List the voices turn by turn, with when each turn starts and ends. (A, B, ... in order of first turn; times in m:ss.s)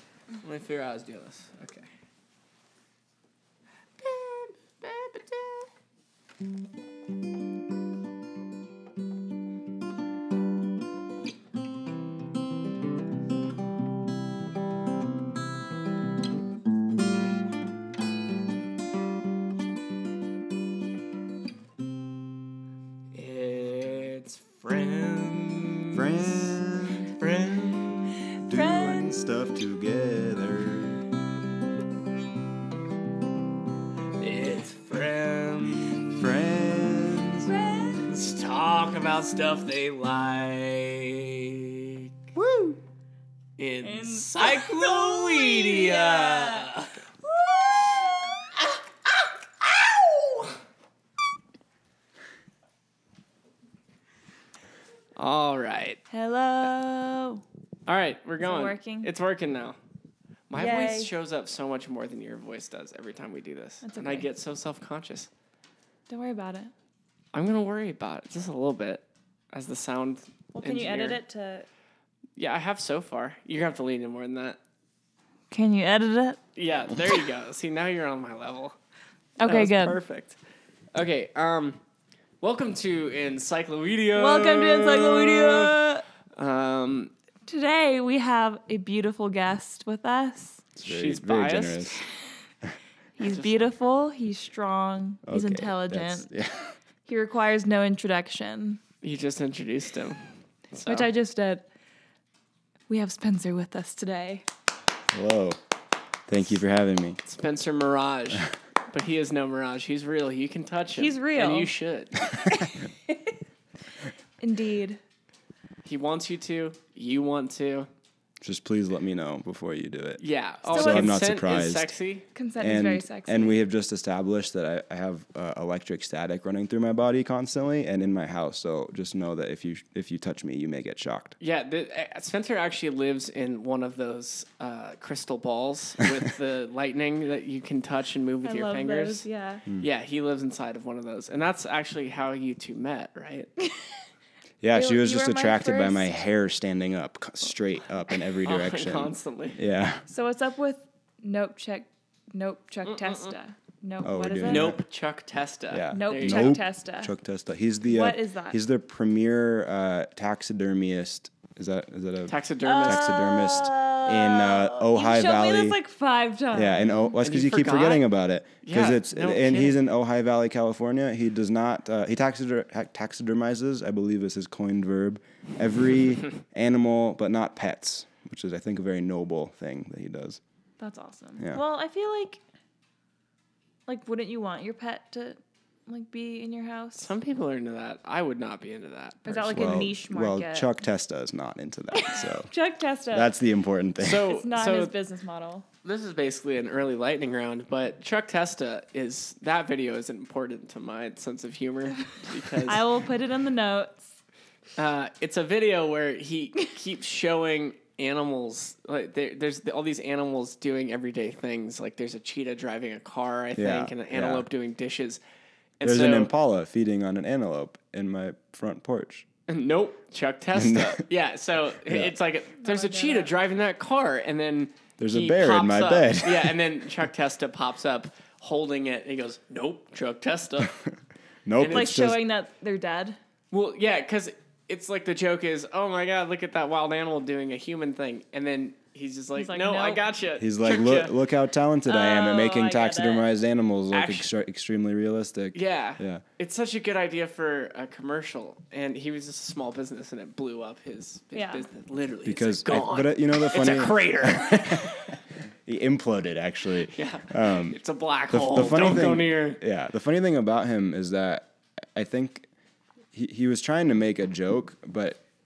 0:00.4-0:01.9 A
0:04.0-0:05.7 A
0:23.1-0:28.2 A
0:25.9-0:27.1 B
0:28.4-0:29.2 C
0:28.4-0:31.0 B
0:34.2-0:36.2 A
0:36.0-0:37.5 B
0:37.4-0:38.1 C
0:38.0-0:42.1 A
0:42.4-0:42.8 B
0:43.6-0:47.0 A
0:43.8-0:46.7 C
0:47.2-0:48.0 C
0:49.6-0:50.6 A
0:55.2-0:56.0 A
0:56.1-0:57.4 C
0:57.9-0:59.8 A
0:58.4-0:59.1 C
1:00.5-1:05.3 A
1:00.5-1:01.1 C
1:03.8-1:04.3 C
1:06.1-1:06.7 C
1:07.3-1:11.2 A
1:10.6-1:11.7 C
1:12.4-1:14.6 A
1:15.5-1:16.4 C
1:16.6-1:18.8 A
1:19.4-1:20.0 C
1:19.4-1:20.4 A
1:20.9-1:21.8 A
1:22.4-1:25.8 A
1:24.2-1:26.0 C
1:26.4-1:27.1 A
1:27.5-1:30.6 C
1:30.8-1:32.0 B
1:30.8-1:32.0 A
1:33.2-1:36.3 C
1:33.2-1:33.5 A
1:35.3-1:36.7 B
1:37.0-1:38.8 C
1:39.0-1:41.1 A
1:40.9-1:41.6 C
1:42.9-1:44.4 C
1:45.1-1:45.6 B
1:46.3-1:47.2 B
1:47.2-1:52.3 A
1:51.0-1:51.7 C
1:52.3-1:53.4 C
1:54.4-1:55.0 C
1:55.8-1:57.9 A
1:58.4-2:01.9 B
2:00.2-2:02.3 A
2:00.7-2:01.2 C
2:02.4-2:03.6 C
2:02.6-2:11.4 B
2:11.4-2:19.2 A
2:18.4-2:19.6 C
2:19.8-2:23.5 A
2:24.6-2:30.1 B
2:24.7-2:26.2 C
2:28.4-2:29.6 A
2:30.1-2:34.8 C
2:32.9-2:33.4 A
2:34.0-2:34.8 B
2:34.4-2:36.6 A
2:35.7-2:45.8 B
2:36.0-2:37.1 C
2:37.8-2:38.6 C
2:42.3-2:43.1 A
2:42.6-2:47.1 C
2:46.5-3:00.4 B
2:47.2-2:48.0 A
2:48.6-2:49.8 A
3:00.8-3:02.4 C
3:03.9-3:07.1 C
3:07.0-3:09.8 A
3:09.3-3:10.7 C
3:09.5-3:12.5 B
3:11.9-3:13.3 C
3:13.1-3:14.3 B
3:14.0-3:14.9 A
3:14.3-3:15.7 C
3:15.8-3:22.9 A
3:22.6-3:24.1 C
3:24.8-3:35.2 A
3:33.6-3:34.5 B
3:35.8-3:36.3 A
3:35.8-3:39.3 B
3:39.5-3:50.8 A
3:40.6-3:41.0 B
3:41.9-3:42.1 B
3:42.6-3:43.3 C
3:45.0-3:46.6 B
3:51.5-3:52.2 B
3:51.6-3:51.9 A
3:51.7-3:53.2 C
3:53.5-4:01.2 A
3:59.4-4:00.1 C
4:00.4-4:06.2 B
4:01.9-4:03.3 C
4:03.9-4:04.3 A
4:05.5-4:15.1 A
4:11.3-4:11.6 C
4:12.3-4:17.8 B
4:16.9-4:19.6 A
4:18.3-4:22.5 B
4:23.1-4:25.2 B